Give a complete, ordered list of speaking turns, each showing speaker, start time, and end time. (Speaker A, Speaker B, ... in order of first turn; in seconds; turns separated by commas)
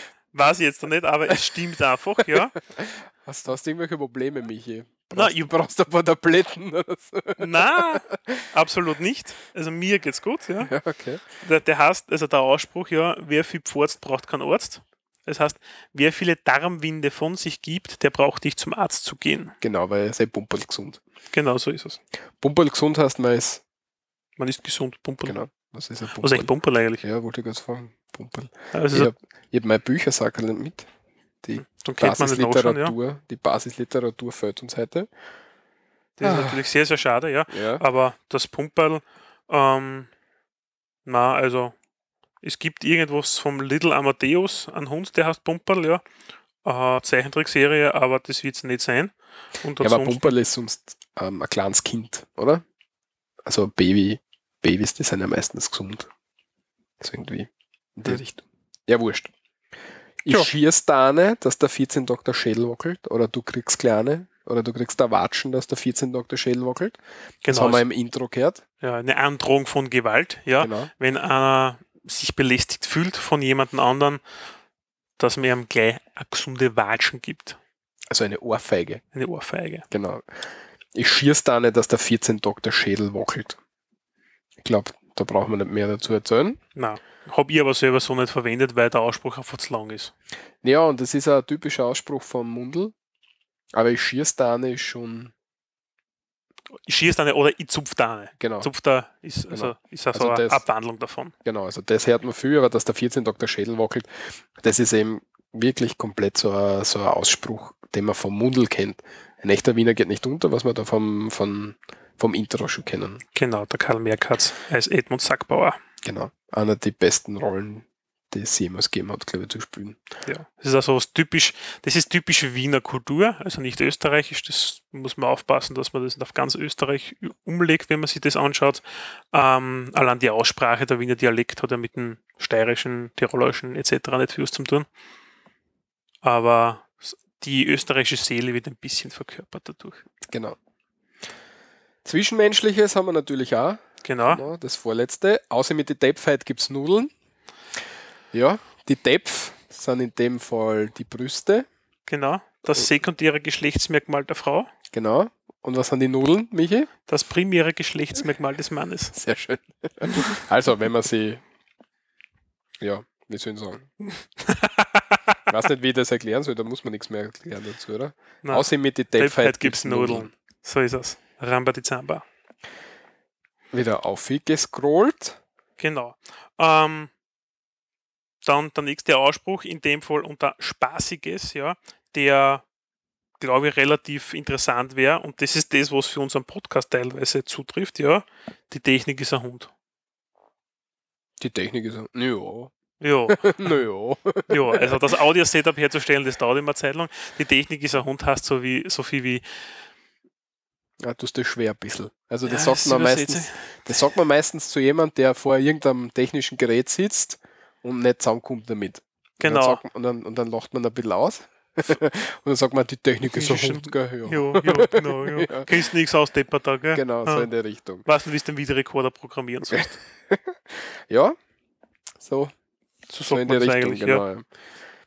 Speaker A: 0.3-2.5, Speaker B: 2.7-8.4, Speaker A: 5.1-5.5, Speaker A: 7.4-10.7, Speaker B: 10.6-11.2, Speaker A: 11.4-19.6, Speaker B: 19.6-21.0, Speaker A: 21.3-22.0, Speaker B: 22.4-23.6, Speaker A: 24.4-25.4, Speaker B: 25.2-30.9, Speaker A: 26.2-27.0, Speaker A: 28.7-29.1, Speaker B: 31.4-35.1, Speaker A: 31.6-33.0, Speaker A: 36.2-40.1, Speaker B: 36.2-36.6, Speaker B: 37.5-37.8, Speaker A: 41.1-41.8, Speaker A: 42.4-46.0, Speaker A: 46.6-50.4, Speaker B: 49.8-52.6, Speaker B: 53.5-56.1, Speaker B: 57.0-59.3, Speaker B: 60.2-68.6, Speaker A: 67.4-67.8, Speaker A: 68.8-74.2, Speaker B: 70.6-70.9, Speaker A: 75.2-77.6, Speaker B: 78.1-79.0, Speaker A: 79.1-79.9, Speaker B: 79.9-80.2, Speaker B: 81.0-83.6, Speaker B: 84.6-86.6, Speaker A: 86.8-90.1, Speaker B: 90.6-92.9, Speaker B: 93.7-95.3, Speaker A: 96.8-101.3, Speaker B: 98.4-98.7, Speaker B: 99.5-100.6, Speaker B: 101.5-113.2, Speaker A: 113.3-115.8, Speaker B: 116.0-120.0, Speaker A: 120.3-134.9, Speaker A: 136.2-140.0, Speaker B: 140.3-140.6, Speaker B: 142.1-147.1, Speaker A: 144.0-144.4, Speaker B: 148.3-151.7, Speaker A: 152.1-154.7, Speaker B: 154.9-156.9, Speaker A: 157.1-159.1, Speaker B: 159.1-161.4, Speaker B: 162.8-163.9, Speaker A: 164.4-165.3, Speaker B: 165.5-170.3, Speaker A: 168.4-172.2, Speaker B: 173.7-175.4, Speaker A: 175.8-177.1, Speaker A: 178.4-182.6, Speaker A: 183.4-189.7, Speaker B: 191.4-192.7, Speaker A: 193.0-193.8, Speaker B: 193.3-195.1, Speaker A: 194.5-199.4, Speaker B: 201.0-215.7, Speaker A: 202.4-204.0, Speaker A: 209.4-209.8, Speaker A: 213.3-217.5, Speaker B: 216.9-218.1, Speaker A: 218.1-219.9, Speaker B: 219.7-221.4, Speaker B: 222.2-222.5, Speaker A: 223.1-224.2, Speaker B: 223.3-224.5